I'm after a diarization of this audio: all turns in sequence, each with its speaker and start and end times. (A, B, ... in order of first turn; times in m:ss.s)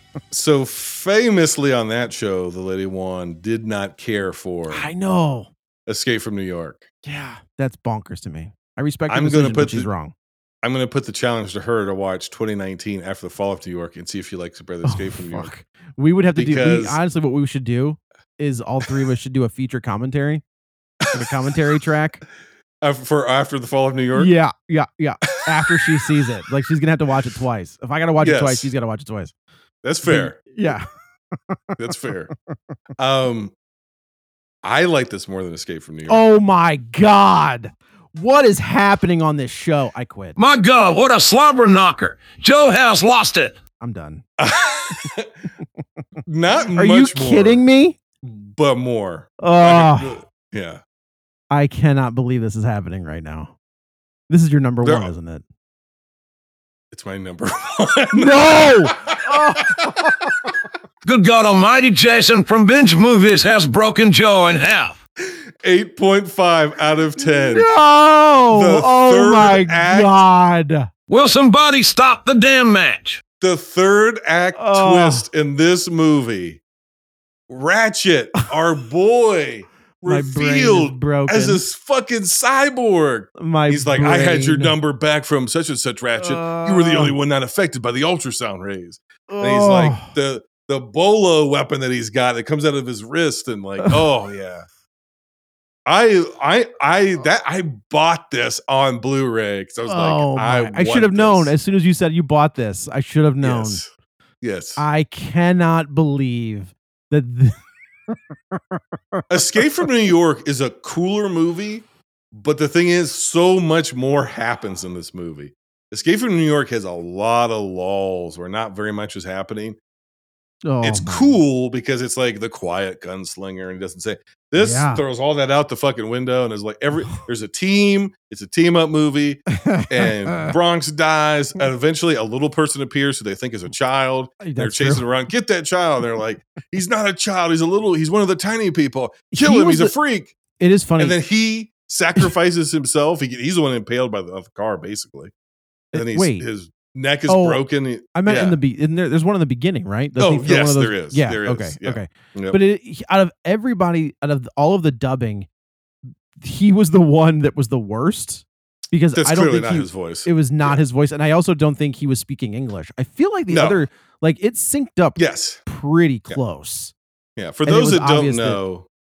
0:00.3-0:04.9 A
0:04.7-0:05.5 B
0:05.9-0:06.9 A
0:07.0-0:10.1 B
0:09.1-0:09.9 A
0:10.6-0:15.5 A
0:14.8-0:20.4 B
0:16.4-0:17.0 A
0:21.0-0:21.3 A
0:21.1-0:22.2 B
0:22.8-0:24.3 A
0:24.2-0:29.3 B
0:25.5-0:25.9 A
0:28.2-0:28.7 A
0:29.8-0:30.7 A
0:30.0-0:30.9 B
0:31.8-0:32.3 A
0:33.0-0:33.5 A
0:34.6-0:36.3 A
0:36.1-0:40.4 B
0:40.4-0:43.6 C
0:43.8-0:44.2 B
0:44.4-0:45.3 A
0:46.3-0:47.6 A
0:46.7-0:48.0 B
0:48.2-0:50.8 A
0:49.4-0:50.2 B
0:51.5-0:53.5 B
0:54.3-0:55.4 B
0:54.8-0:55.1 A
0:56.9-0:59.9 A
0:58.1-1:00.1 B
1:01.0-1:05.0 C
1:05.6-1:07.7 A
1:07.2-1:10.9 B
1:08.5-1:10.2 A
1:11.1-1:13.2 C
1:13.4-1:16.6 A
1:14.6-1:15.3 B
1:17.5-1:34.7 A
1:20.1-1:21.6 B
1:23.4-1:24.8 B
1:26.2-1:27.2 B
1:29.3-1:30.1 B
1:35.9-1:41.5 A
1:39.9-1:43.8 B
1:43.4-1:43.9 A
1:44.4-1:44.8 A
1:44.8-1:47.6 B
1:49.3-1:59.8 A
2:00.6-2:01.3 B
2:00.8-2:20.3 A
2:04.6-2:05.0 B
2:09.5-2:10.6 B
2:14.4-2:15.1 B
2:19.3-2:20.0 B
2:20.6-2:21.2 B
2:21.0-2:25.3 A
2:25.9-2:26.5 B
2:25.9-2:28.6 A
2:27.3-2:35.5 B
2:30.2-2:32.6 A
2:36.4-2:46.9 B
2:39.2-2:40.8 A
2:43.5-2:43.8 A
2:45.2-2:45.6 A
2:47.4-2:48.9 A
2:47.6-2:48.6 B